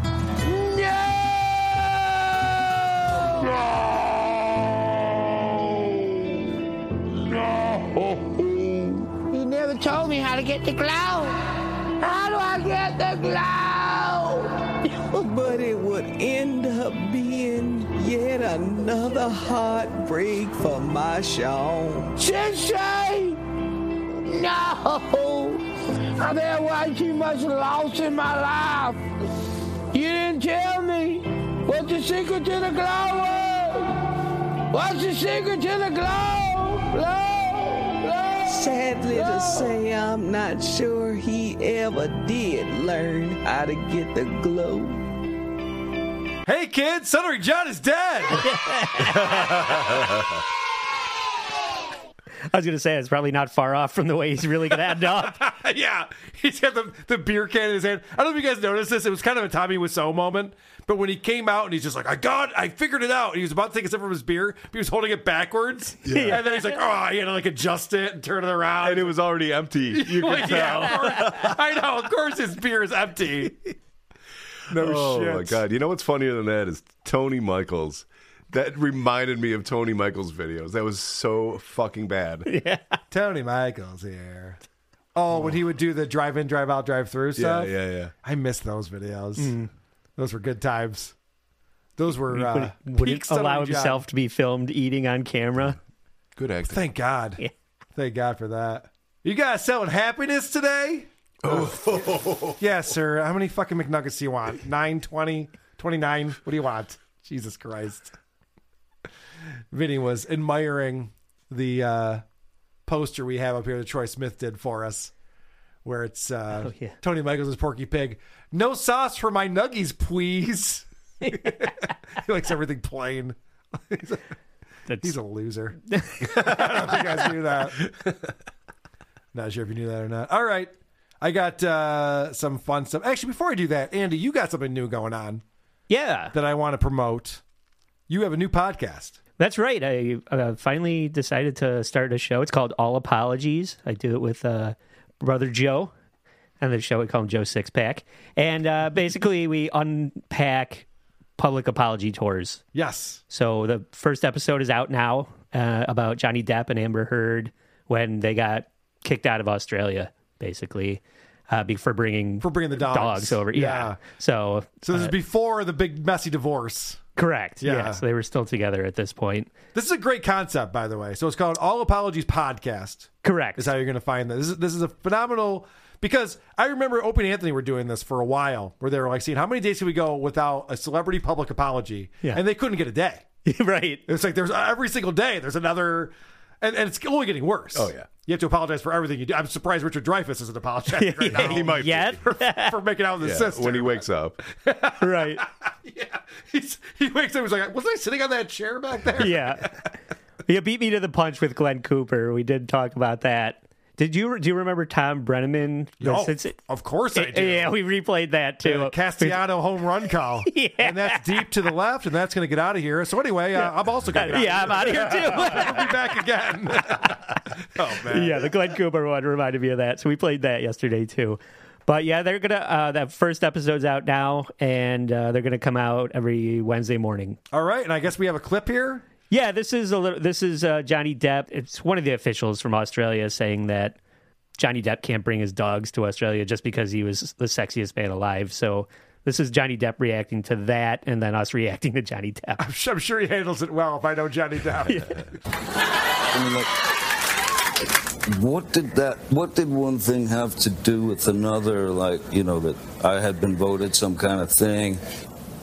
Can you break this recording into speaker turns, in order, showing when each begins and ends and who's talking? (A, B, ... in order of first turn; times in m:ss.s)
0:00.4-0:02.9 A
0:07.3-0:11.4 A
0:12.0-0:15.2 A
0:15.2-0:22.1 B
0:22.2-0:23.4 A
0:24.2-0:25.6 A
0:26.2-0:29.0 A
0:29.9-0:33.9 A
0:34.7-0:39.7 A
0:38.5-0:45.0 B
0:46.4-0:48.5 C
0:48.5-0:49.6 D
0:49.1-0:50.2 E
0:52.5-0:55.4 D
0:55.3-1:09.1 C
1:06.0-1:06.4 E
1:06.1-1:06.7 D
1:08.8-1:11.5 E
1:09.9-1:13.6 C
1:10.4-1:10.9 D
1:14.7-1:15.6 C
1:14.7-1:22.5 E
1:22.4-1:22.8 D
1:23.1-1:24.6 C
1:25.1-1:29.5 C
1:27.4-1:28.1 E
1:29.4-1:29.7 D
1:30.2-1:31.1 C
1:32.0-1:34.0 C
1:32.3-1:35.8 D
1:36.4-1:36.8 E
1:36.7-1:37.4 C
1:37.9-1:42.0 C
1:41.4-1:42.6 E
1:42.6-1:48.1 C
1:49.7-1:52.2 C
1:52.9-1:55.1 C
1:55.8-2:03.3 C
1:56.6-1:56.9 D
2:03.9-2:04.2 C
2:05.0-2:07.8 C
2:05.9-2:07.1 D
2:09.3-2:15.4 C
2:15.9-2:16.3 D
2:16.3-2:17.4 C
2:18.1-2:19.2 C
2:19.4-2:25.9 D
2:26.6-2:30.8 D
2:31.4-2:32.6 D
2:32.7-2:33.2 C
2:33.3-2:45.1 D
2:42.4-2:44.0 C
2:44.8-2:47.0 C
2:47.2-2:49.5 D
2:47.6-2:48.0 C
2:49.7-3:03.2 C
2:53.2-2:53.7 D
3:03.4-3:04.0 D
3:04.1-3:19.6 C
3:07.7-3:08.1 E
3:11.0-3:12.8 D
3:11.4-3:12.2 E
3:13.2-3:14.4 E
3:15.0-3:15.4 D
3:19.2-3:19.7 D
3:20.5-3:26.6 D
3:26.0-3:27.7 C
3:27.1-3:29.4 D
3:28.6-3:38.4 C
3:30.5-3:31.5 D
3:33.6-3:36.2 D
3:38.1-3:47.4 D
3:47.5-3:49.0 C
3:49.3-3:54.0 D
3:54.6-4:02.6 D
4:02.6-4:05.1 C
4:06.3-4:06.7 F
4:08.3-4:15.0 F